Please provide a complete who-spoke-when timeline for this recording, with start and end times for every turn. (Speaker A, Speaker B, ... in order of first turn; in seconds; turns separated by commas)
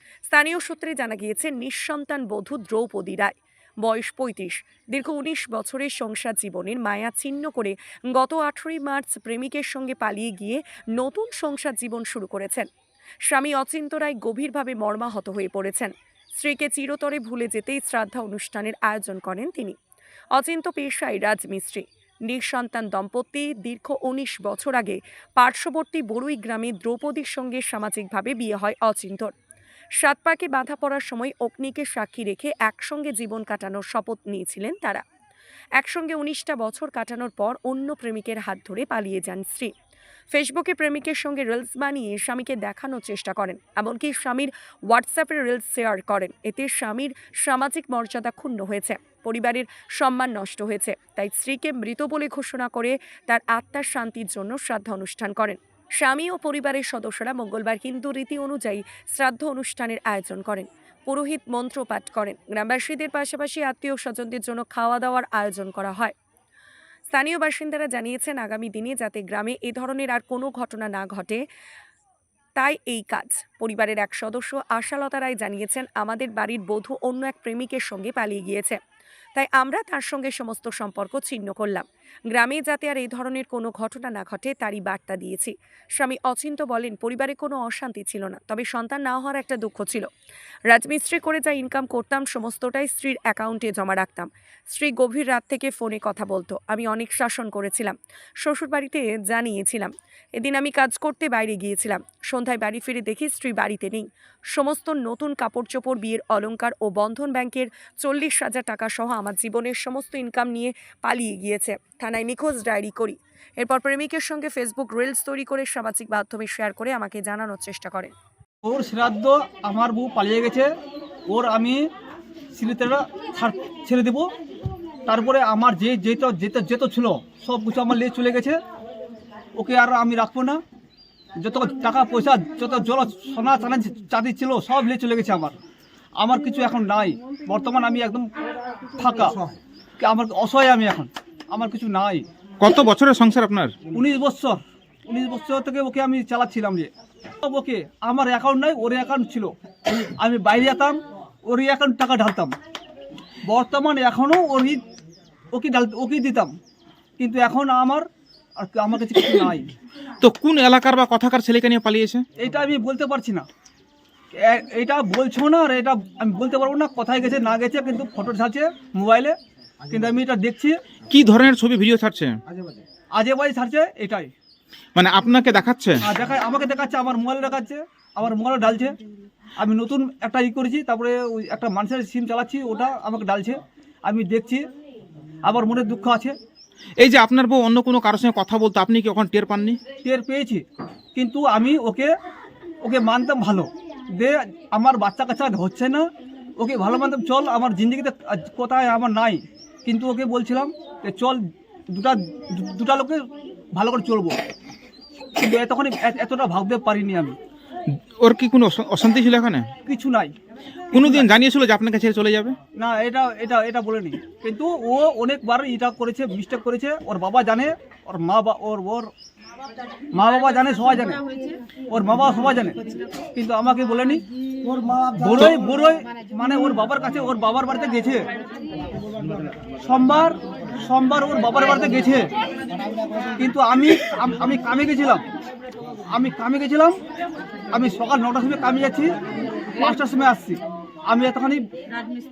Speaker A: 0.3-12.7, Speaker A: 13.3-19.8, Speaker A: 20.3-29.3, Speaker A: 30.0-35.0, Speaker A: 35.8-39.7, Speaker A: 40.3-66.1, Speaker A: 67.1-71.4, Speaker A: 72.6-78.8, Speaker A: 79.3-90.1, Speaker A: 90.7-118.1, Speaker B: 118.6-120.7, Speaker B: 121.3-121.8, Speaker B: 122.5-124.3, Speaker B: 125.1-128.6, Speaker B: 129.6-130.6, Speaker B: 131.4-135.6, Speaker B: 136.2-138.3, Speaker B: 138.9-139.4, Speaker B: 140.0-142.2, Speaker C: 142.6-143.7, Speaker B: 143.9-146.9, Speaker B: 147.4-152.5, Speaker B: 153.5-154.8, Speaker B: 155.5-156.5, Speaker B: 157.2-158.0, Speaker B: 158.6-159.7, Speaker C: 160.2-162.2, Speaker B: 162.4-163.4, Speaker B: 164.3-169.3, Speaker B: 169.9-170.8, Speaker C: 171.1-172.3, Speaker B: 173.2-174.3, Speaker C: 174.9-176.0, Speaker B: 176.0-179.0, Speaker B: 179.6-184.7, Speaker B: 185.4-186.3, Speaker C: 187.0-189.8, Speaker B: 190.0-190.6, Speaker B: 191.2-192.1, Speaker B: 192.8-196.0, Speaker B: 196.6-204.4, Speaker B: 205.3-207.3, Speaker C: 208.2-209.7, Speaker B: 209.8-210.3, Speaker B: 210.9-211.3, Speaker C: 210.9-212.6, Speaker B: 212.7-219.1, Speaker B: 220.1-221.2, Speaker B: 221.9-224.2, Speaker B: 225.1-228.3, Speaker B: 229.8-232.3, Speaker B: 233.4-235.2, Speaker B: 236.1-237.0, Speaker B: 237.7-239.2, Speaker B: 239.7-241.6